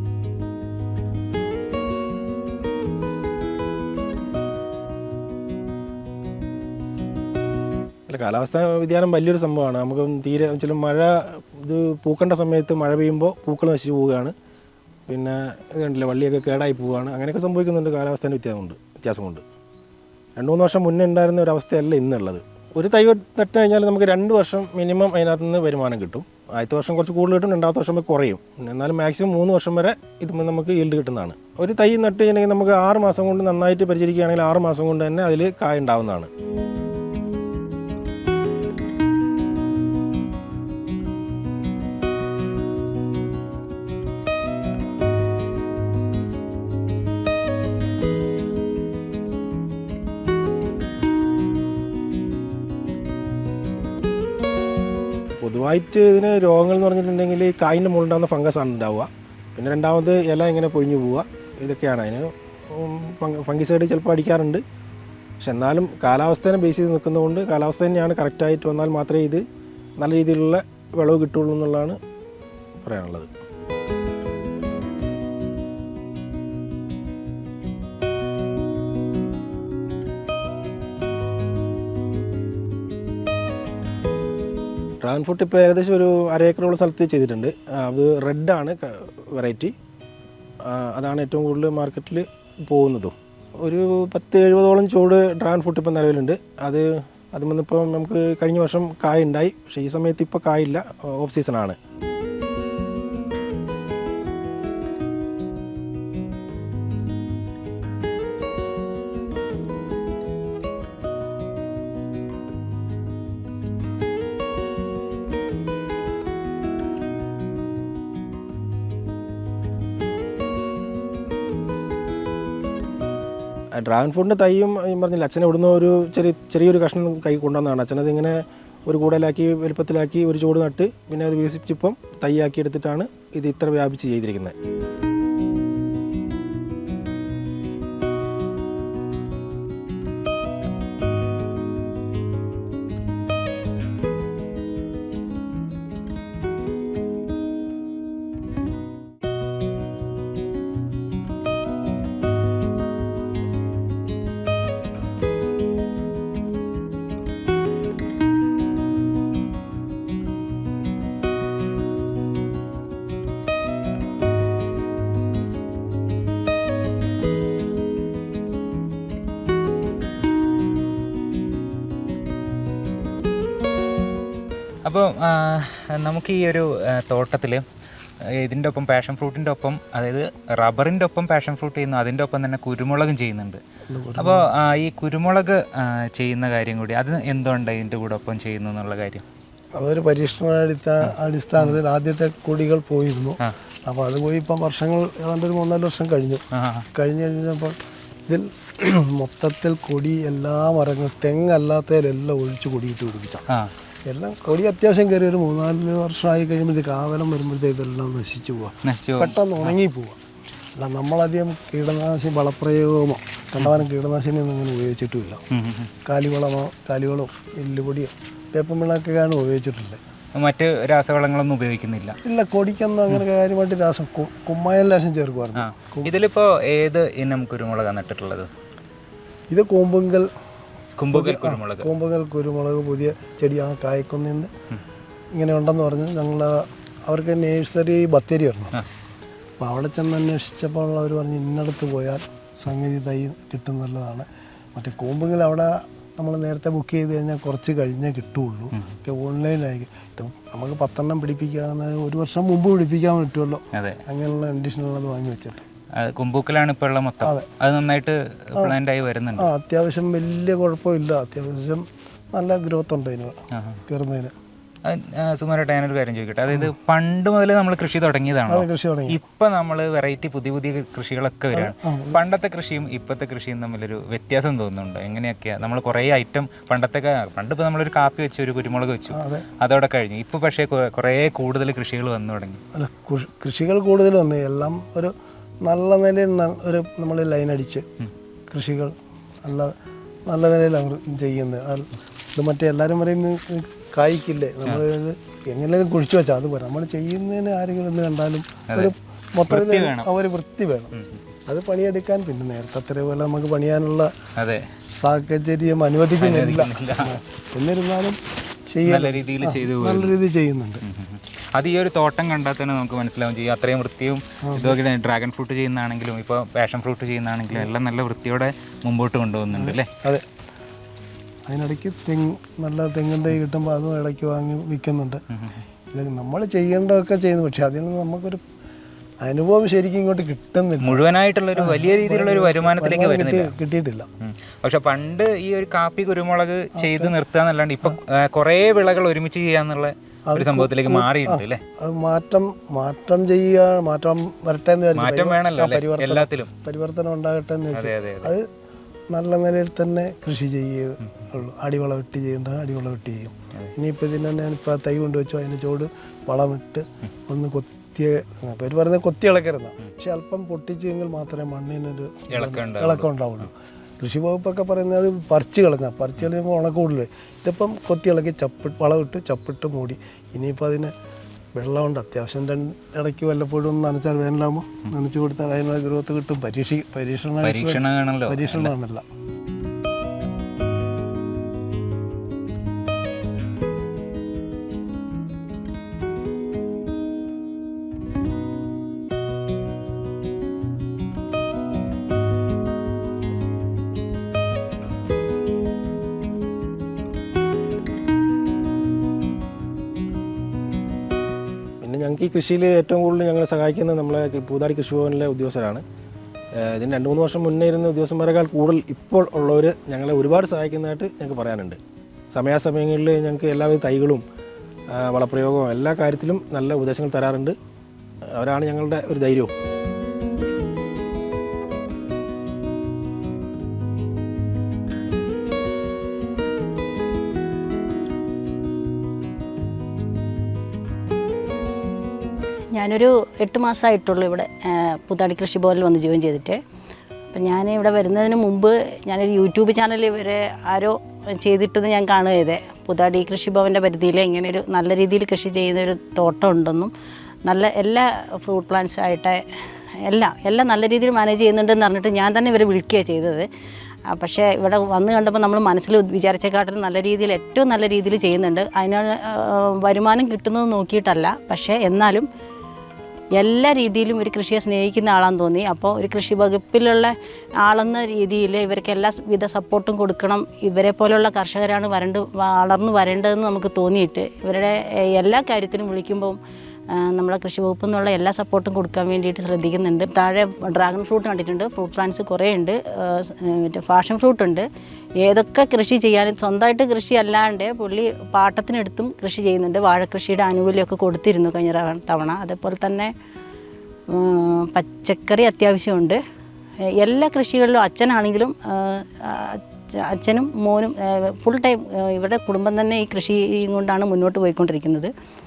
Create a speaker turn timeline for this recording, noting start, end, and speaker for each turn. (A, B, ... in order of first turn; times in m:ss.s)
0:08.1-0:14.3 A
0:15.1-0:19.4 A
0:20.4-0:36.3 A
0:55.4-1:04.6 A
1:05.4-1:09.4 A
1:10.0-1:12.0 A
1:12.8-1:13.3 A
1:25.0-1:29.7 A
1:30.6-1:41.8 A
2:03.8-2:14.5 A
2:54.8-2:57.6 B
2:58.4-3:03.6 B
3:03.9-3:04.5 C
3:04.2-3:09.2 B
3:09.8-3:16.4 C
3:11.0-3:11.8 B
3:16.5-3:16.9 B
3:17.0-3:17.8 C
3:18.3-3:23.4 C
3:24.1-3:30.2 C
3:28.8-3:29.7 B
3:30.8-3:35.4 C
3:35.5-3:35.9 B
3:36.0-3:40.0 C
3:40.4-3:42.2 B
3:42.2-3:46.1 C
3:45.6-3:48.5 B
3:49.5-3:50.3 C
3:51.0-3:51.9 B
3:51.1-3:54.5 C
3:55.3-3:58.8 C
3:59.6-4:15.6 C
4:13.7-4:14.0 B
4:16.0-4:19.5 B
4:17.2-4:17.5 C
4:19.4-4:24.3 C
4:23.5-4:23.8 B
4:24.8-4:42.6 B
4:28.5-4:29.2 C
4:31.5-4:32.2 C
4:39.1-4:39.5 C
4:42.7-4:47.8 C
4:48.5-4:49.7 C
4:50.3-5:00.9 C
4:59.5-5:00.1 B
5:00.9-5:01.2 B
5:01.5-5:04.1 C
5:04.4-5:04.7 B
5:04.8-5:08.2 C
5:06.2-5:07.2 B
5:08.7-5:10.8 C
5:08.8-5:10.1 B
5:10.8-5:19.9 B
5:14.4-5:14.8 C
5:19.5-5:20.2 C
5:21.5-5:25.2 C
5:25.9-5:28.4 C
5:29.2-5:31.0 C
5:30.8-5:33.5 B
5:31.6-5:34.1 C
5:34.2-5:41.6 B
5:36.8-5:37.2 C
5:40.3-5:48.5 C
5:45.0-5:46.5 B
5:47.7-5:48.4 B
5:49.1-6:10.9 C
6:02.3-6:03.1 B
6:11.6-6:19.0 C
6:17.4-6:18.7 B
6:41.8-6:45.8 A
6:46.6-6:51.8 A
6:52.3-6:54.2 A
6:54.9-6:57.6 A
6:58.4-6:59.5 A
7:12.7-7:16.6 D
7:17.3-7:26.9 D
7:27.5-7:29.4 D
7:30.0-7:33.5 D
7:34.1-7:42.3 D
7:43.4-7:56.4 D
7:57.0-8:04.7 D
8:05.2-8:13.1 D
8:14.1-8:16.2 D
8:17.0-8:25.1 D